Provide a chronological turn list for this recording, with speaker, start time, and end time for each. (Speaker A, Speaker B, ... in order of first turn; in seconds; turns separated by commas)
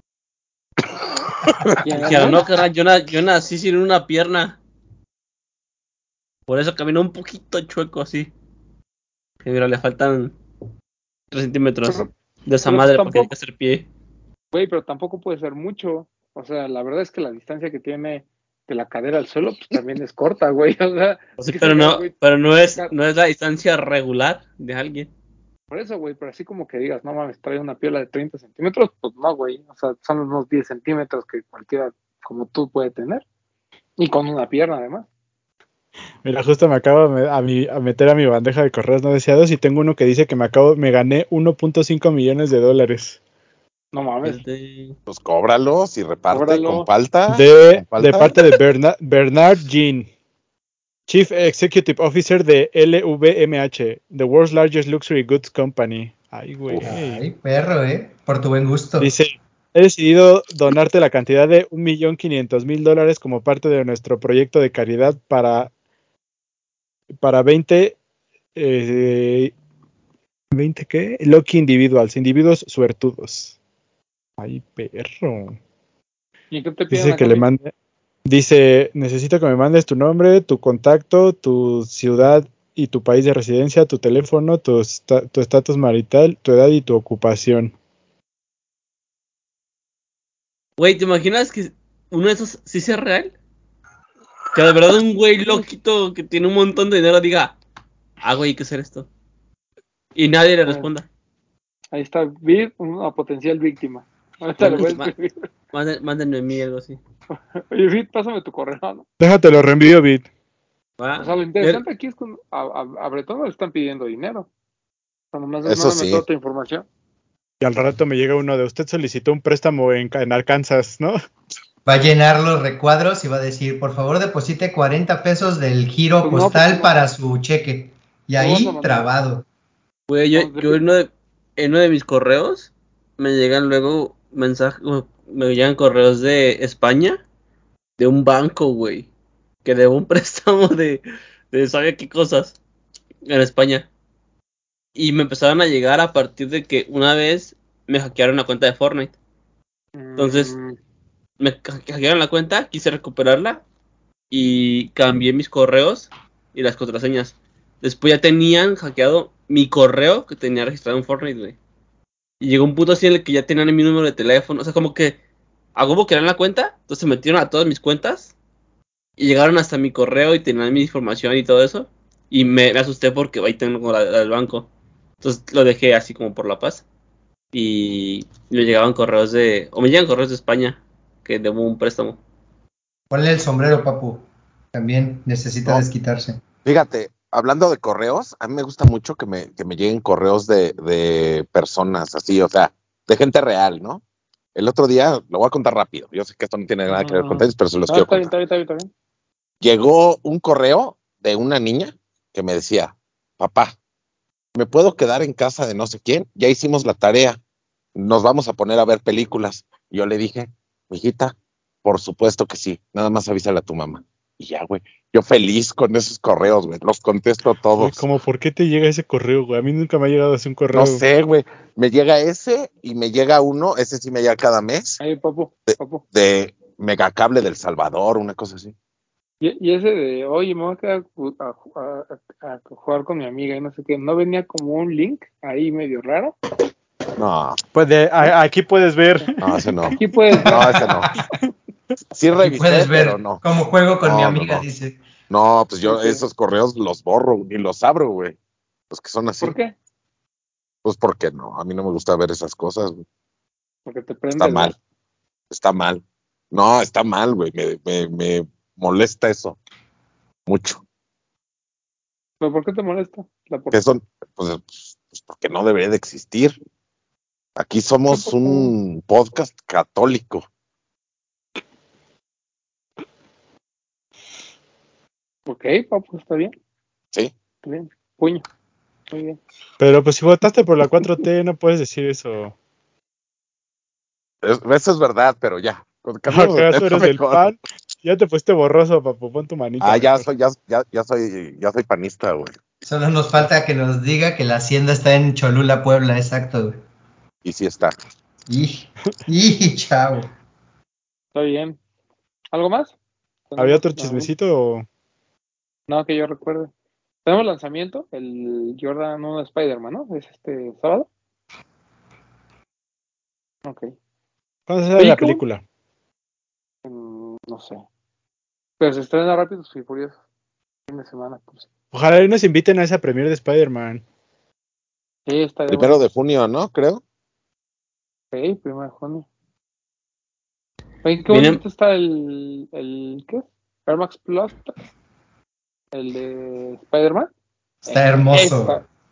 Speaker A: 1.4-1.8, Speaker B: 1.8-2.4, Speaker C: 2.0-4.6, Speaker C: 6.5-8.3, Speaker C: 9.4-10.3, Speaker C: 11.3-13.9, Speaker B: 12.6-13.3, Speaker B: 14.5-22.1, Speaker C: 21.4-25.1, Speaker B: 25.7-33.2, Speaker B: 34.0-35.1, Speaker D: 36.2-43.2, Speaker B: 43.9-44.4, Speaker C: 44.2-45.0, Speaker A: 45.1-48.5, Speaker B: 46.3-46.9, Speaker D: 47.3-50.1, Speaker D: 51.1-57.2, Speaker E: 56.7-59.1, Speaker D: 59.0-65.7, Speaker D: 67.2-68.0, Speaker D: 68.5-69.5, Speaker D: 70.5-73.6, Speaker D: 74.4-75.6, Speaker B: 76.5-77.5, Speaker D: 76.9-77.7, Speaker D: 78.2-87.7, Speaker C: 90.8-93.3, Speaker C: 94.5-97.5, Speaker C: 98.2-99.1, Speaker C: 100.1-101.1, Speaker B: 101.9-105.5, Speaker C: 104.6-105.1, Speaker C: 105.7-107.0, Speaker B: 107.3-109.0, Speaker D: 109.2-110.3, Speaker C: 111.0-111.8, Speaker B: 111.2-114.5, Speaker B: 115.3-116.8, Speaker A: 115.6-116.2, Speaker D: 117.6-121.2, Speaker E: 121.8-129.4, Speaker B: 126.2-127.0, Speaker B: 128.4-129.1, Speaker C: 130.1-137.2, Speaker B: 130.3-130.8, Speaker C: 138.0-139.1, Speaker C: 139.6-142.6, Speaker C: 143.2-143.9, Speaker C: 144.9-149.1, Speaker B: 149.9-150.8, Speaker C: 150.2-150.5, Speaker C: 151.4-153.6, Speaker C: 154.3-161.6, Speaker C: 162.4-165.2, Speaker C: 165.8-168.3, Speaker C: 169.2-174.7, Speaker C: 175.2-176.8, Speaker C: 177.5-182.2, Speaker E: 183.1-186.4, Speaker A: 186.6-194.0, Speaker A: 194.5-198.3, Speaker B: 196.9-198.9, Speaker A: 199.6-203.8, Speaker A: 204.5-207.4, Speaker A: 207.9-218.1, Speaker D: 217.8-221.0, Speaker A: 220.7-225.0, Speaker B: 225.0-226.0, Speaker A: 225.7-228.7, Speaker B: 229.4-236.3, Speaker A: 237.1-237.6, Speaker D: 237.7-241.2, Speaker A: 239.4-241.1, Speaker B: 239.9-240.9, Speaker A: 242.1-243.4, Speaker E: 242.4-245.0, Speaker A: 244.0-244.6, Speaker A: 245.3-248.4, Speaker B: 245.9-246.2, Speaker A: 248.9-249.6, Speaker B: 249.4-249.7, Speaker A: 250.8-253.0, Speaker B: 253.8-254.7, Speaker A: 254.3-254.7, Speaker A: 255.5-259.6, Speaker A: 260.5-260.8, Speaker B: 262.4-263.8, Speaker A: 263.7-266.6, Speaker A: 267.6-270.4, Speaker B: 268.1-268.7, Speaker B: 275.4-276.5, Speaker B: 277.6-278.4, Speaker B: 279.1-279.4, Speaker D: 279.8-282.5, Speaker A: 284.4-287.4, Speaker D: 286.3-290.3, Speaker A: 289.8-292.6, Speaker E: 292.8-296.8, Speaker A: 297.4-297.9, Speaker E: 298.5-300.3, Speaker B: 301.3-301.8, Speaker B: 302.5-302.9, Speaker B: 303.5-304.3, Speaker D: 303.6-304.9, Speaker B: 305.9-306.7, Speaker B: 307.2-311.1, Speaker B: 313.6-313.9, Speaker D: 314.7-315.6, Speaker B: 315.0-315.4, Speaker B: 316.8-317.8, Speaker B: 318.8-320.2, Speaker B: 320.9-321.7, Speaker D: 321.9-324.0, Speaker B: 325.3-326.1, Speaker A: 325.7-327.0, Speaker B: 328.3-329.2, Speaker B: 331.0-334.8, Speaker C: 331.3-331.6, Speaker B: 335.9-337.3, Speaker E: 337.8-338.8, Speaker B: 337.9-338.8